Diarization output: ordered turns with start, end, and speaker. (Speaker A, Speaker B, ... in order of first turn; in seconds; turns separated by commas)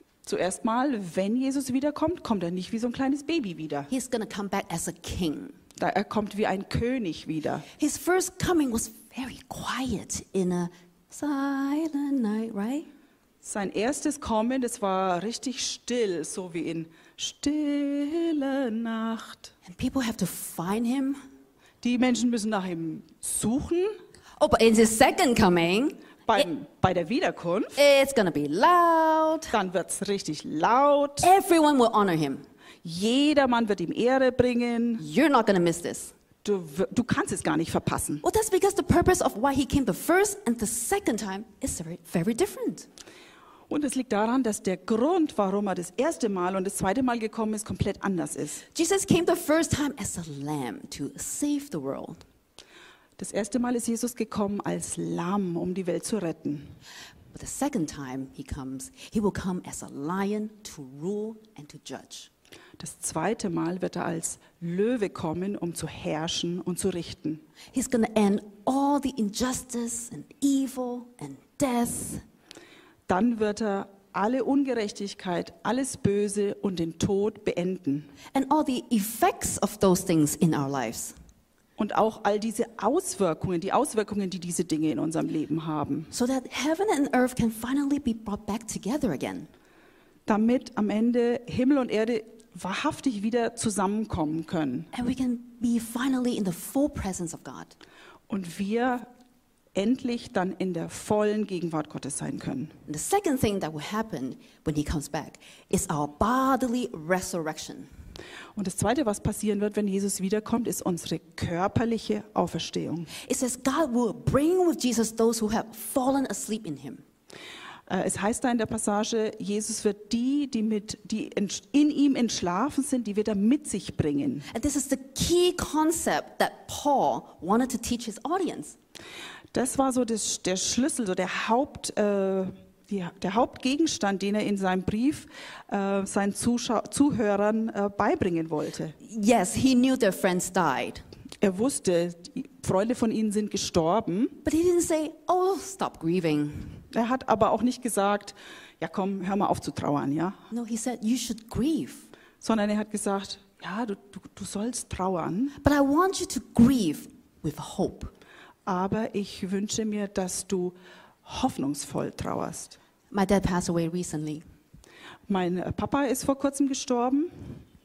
Speaker A: 0.2-3.9, Speaker B: 3.9-5.6, Speaker A: 5.8-7.7, Speaker B: 7.8-12.9, Speaker A: 13.4-19.5, Speaker B: 19.6-21.2, Speaker A: 21.8-23.9, Speaker B: 24.4-26.0, Speaker A: 26.3-27.8, Speaker B: 27.8-29.5, Speaker A: 29.5-31.3, Speaker B: 31.2-32.4, Speaker A: 32.8-35.0, Speaker B: 35.0-36.1, Speaker A: 36.4-38.2, Speaker B: 38.2-42.9, Speaker A: 43.7-48.6, Speaker B: 48.7-52.2, Speaker A: 53.2-56.7, Speaker B: 57.3-62.3, Speaker A: 62.8-67.4, Speaker B: 67.7-72.2, Speaker A: 73.1-78.1, Speaker B: 78.3-81.2, Speaker A: 81.8-86.1, Speaker B: 86.1-89.5, Speaker A: 90.3-94.9, Speaker B: 94.9-97.8, Speaker A: 98.3-99.1, Speaker A: 99.8-102.8, Speaker B: 102.9-107.9, Speaker A: 108.5-113.1, Speaker B: 113.2-117.0, Speaker A: 117.9-124.5, Speaker B: 124.5-128.8, Speaker A: 129.5-139.0, Speaker B: 139.0-141.0, Speaker A: 141.4-144.4, Speaker B: 144.4-146.8, Speaker A: 146.9-150.4, Speaker B: 150.5-152.1, Speaker A: 152.4-155.6, Speaker B: 155.6-158.1, Speaker A: 158.7-162.8, Speaker B: 163.1-164.4, Speaker A: 165.3-167.6